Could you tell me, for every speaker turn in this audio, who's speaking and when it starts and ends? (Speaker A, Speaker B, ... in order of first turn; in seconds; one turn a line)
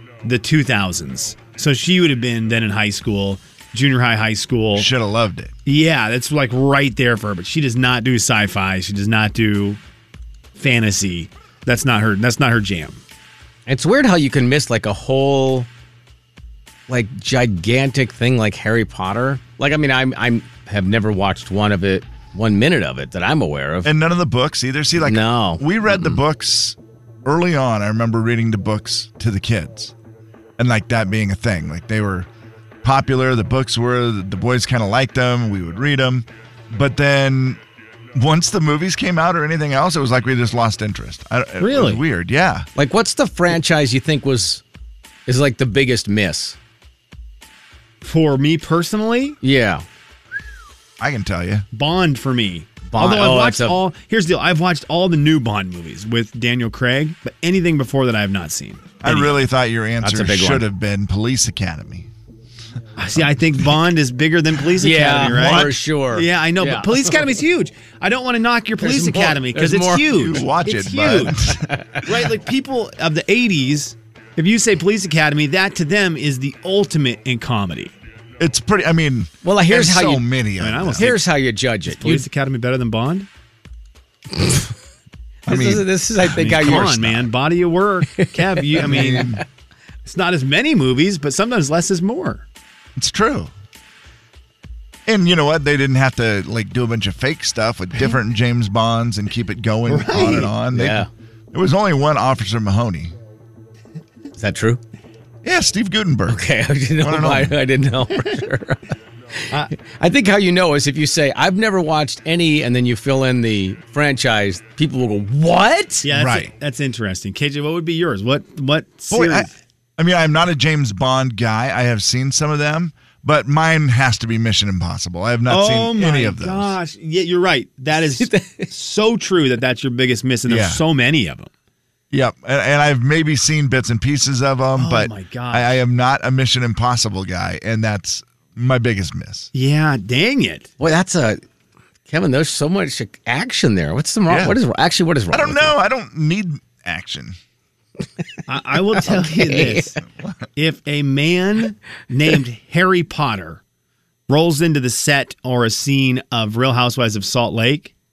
Speaker A: 0.2-4.9
Speaker B: 4.8-5.5
Speaker A: 5.6-9.8
Speaker A: 10.6-13.0
Speaker C: 13.7-15.7
Speaker C: 16.9-23.9
Speaker B: 23.8-29.9
Speaker C: 25.0-26.2
Speaker B: 30.6-32.3
Speaker B: 32.8-37.6
Speaker B: 38.1-42.6
Speaker A: 41.6-42.0
Speaker C: 42.8-44.6
Speaker C: 45.3-46.6
Speaker A: 48.0-49.4
Speaker C: 49.4-49.8
Speaker B: 51.0-51.6
Speaker A: 51.7-59.4
Speaker C: 52.9-53.8
Speaker B: 59.0-62.1
Speaker C: 60.0-60.6
Speaker A: 63.0-71.5
Speaker C: 64.8-67.1
Speaker B: 65.2-65.8
Speaker C: 68.8-70.3
Speaker B: 70.1-71.6
Speaker C: 71.5-72.1
Speaker A: 72.0-77.9
Speaker B: 78.4-81.1
Speaker C: 79.4-80.2
Speaker A: 80.6-81.3
Speaker C: 80.9-82.3
Speaker A: 81.9-83.3
Speaker C: 84.3-84.7
Speaker C: 85.5-87.1
Speaker B: 85.5-87.3
Speaker A: 86.2-89.4
Speaker C: 88.2-89.4
Speaker B: 88.8-89.4
Speaker A: 90.0-92.4
Speaker B: 93.0-93.5
Speaker B: 95.1-103.1
Speaker A: 99.9-100.5
Speaker C: 100.7-101.1
Speaker C: 104.4-104.8
Speaker B: 105.4-106.4
Speaker C: 106.3-108.8
Speaker B: 107.0-107.5
Speaker C: 109.7-116.1
Speaker A: 116.0-119.6
Speaker B: 116.1-116.5
Speaker B: 119.1-126.8
Speaker A: 125.5-131.5
Speaker C: 128.2-128.6
Speaker B: 130.5-130.8
Speaker B: 132.1-139.5
Speaker A: 134.8-135.8
Speaker A: 139.5-140.7
Speaker C: 140.8-141.4
Speaker C: 142.1-145.7
Speaker B: 144.3-144.6
Speaker B: 145.3-147.4
Speaker A: 148.5-150.0
Speaker C: 149.0-149.9
Speaker A: 150.6-153.6
Speaker A: 154.3-157.9